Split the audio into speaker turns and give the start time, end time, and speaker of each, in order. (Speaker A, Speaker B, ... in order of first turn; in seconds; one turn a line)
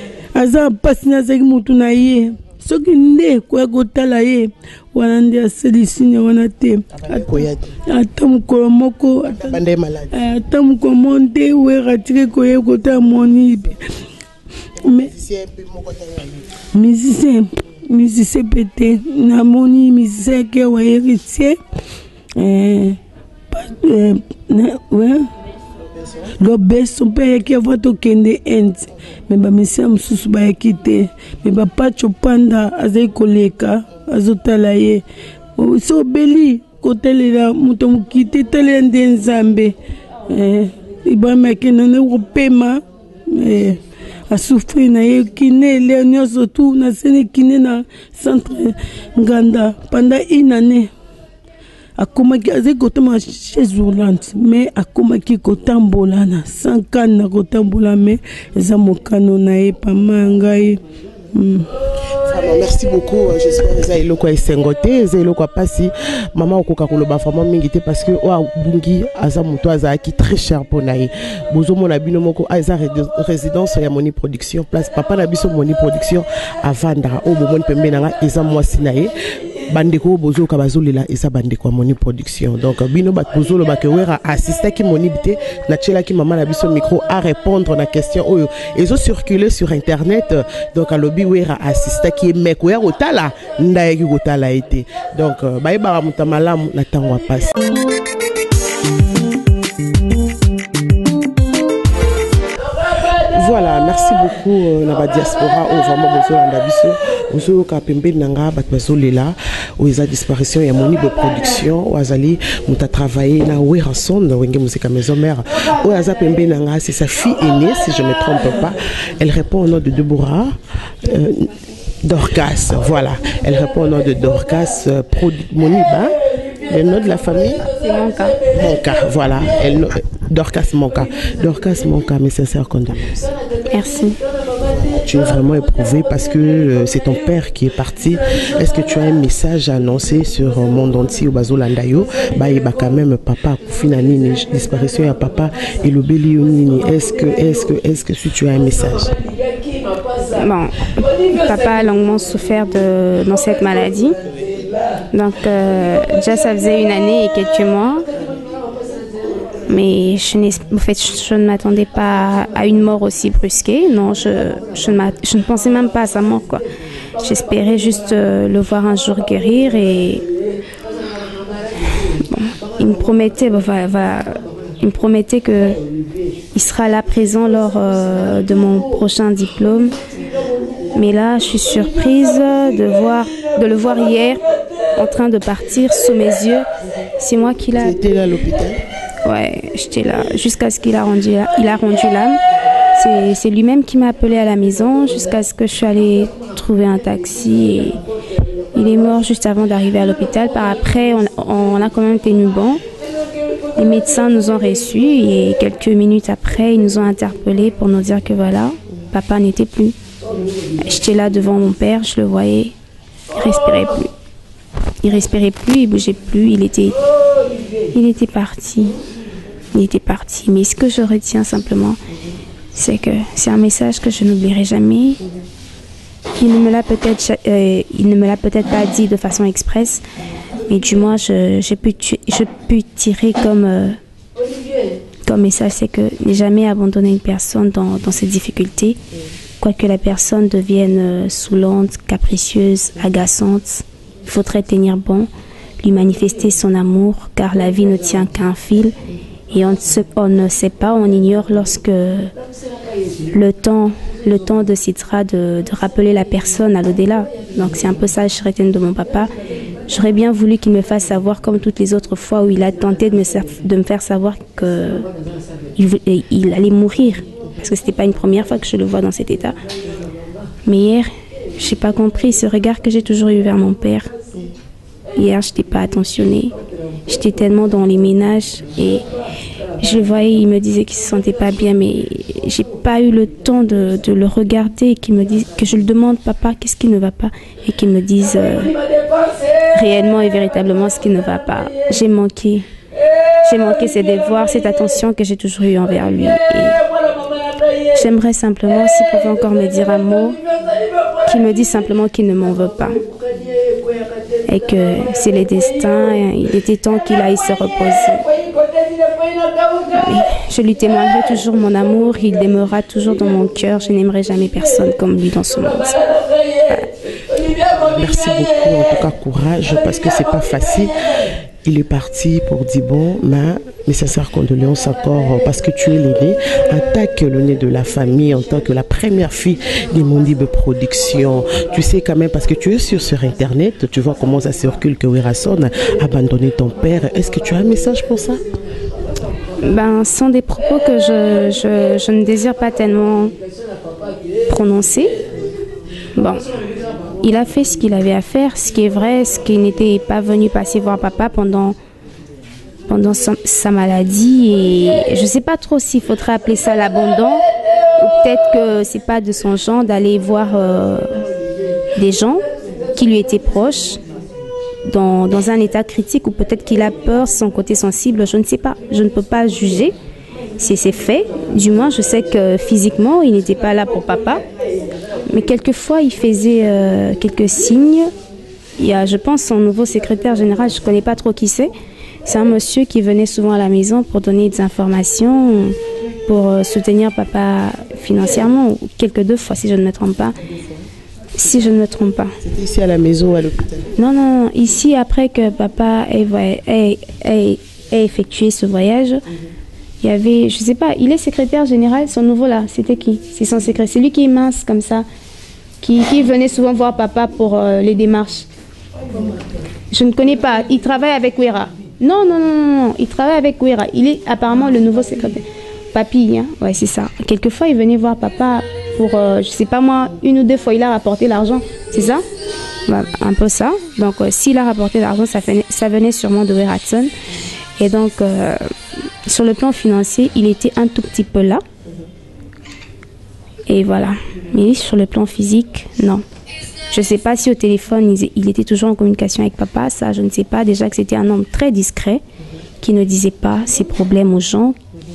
Speaker A: 0.3-9.6
Speaker B: 7.0-7.7
Speaker B: 9.3-10.1
Speaker A: 10.1-13.8
Speaker B: 14.8-16.5
Speaker A: 14.8-15.1
Speaker A: 16.7-21.6
Speaker A: 22.4-23.0
Speaker A: 23.5-25.3
Speaker A: 26.3-35.0
Speaker A: 35.6-39.8
Speaker A: 40.3-50.9
Speaker A: 52.0-60.8
Speaker A: 61.3-61.7
Speaker B: 62.2-79.2
Speaker B: 79.7-97.5
Speaker B: 103.1-121.5
Speaker B: 122.0-127.7
Speaker C: 127.8-128.4
Speaker B: 128.5-133.3
Speaker C: 133.7-134.2
Speaker B: 134.6-149.2
Speaker C: 150.3-154.2
Speaker C: 155.1-158.1
Speaker C: 159.7-166.7
Speaker C: 167.2-170.3
Speaker C: 172.1-175.8
Speaker C: 176.5-180.0
Speaker C: 180.9-184.4
Speaker C: 184.9-186.7
Speaker C: 187.2-188.0
Speaker B: 187.8-188.8
Speaker C: 189.2-192.4
Speaker C: 192.9-198.0
Speaker C: 198.7-202.8
Speaker C: 203.8-209.9
Speaker C: 210.8-212.7
Speaker C: 213.3-214.1
Speaker C: 215.0-217.0
Speaker C: 217.9-219.0
Speaker C: 219.7-222.0
Speaker C: 222.7-225.2
Speaker C: 226.3-230.0
Speaker C: 230.7-234.0
Speaker C: 235.3-239.0
Speaker C: 239.6-245.3
Speaker C: 245.8-249.0
Speaker C: 249.5-252.3
Speaker C: 253.3-259.3
Speaker C: 259.9-265.1
Speaker C: 265.8-269.6
Speaker C: 270.6-274.1
Speaker C: 275.1-276.5
Speaker C: 277.1-279.0
Speaker C: 279.8-288.8
Speaker C: 289.6-292.7
Speaker C: 293.4-296.8
Speaker C: 297.9-300.4
Speaker C: 301.2-303.0
Speaker C: 304.5-308.2
Speaker C: 309.8-316.9
Speaker B: 317.7-338.4
Speaker C: 339.6-343.3
Speaker C: 344.5-345.1
Speaker C: 346.2-346.4
Speaker C: 347.2-351.8
Speaker C: 352.9-357.4
Speaker C: 358.0-361.1
Speaker C: 361.9-364.0
Speaker C: 364.9-369.9
Speaker C: 370.6-374.4
Speaker C: 375.3-378.1
Speaker C: 378.8-381.7
Speaker C: 382.2-390.4
Speaker C: 391.3-392.4
Speaker B: 392.4-393.9
Speaker C: 394.0-399.2
Speaker C: 400.0-405.1
Speaker C: 405.8-408.5
Speaker C: 409.9-422.2
Speaker C: 422.9-427.1
Speaker C: 427.8-428.6
Speaker C: 429.2-431.6
Speaker C: 433.7-436.2
Speaker C: 436.9-442.2
Speaker C: 442.8-444.8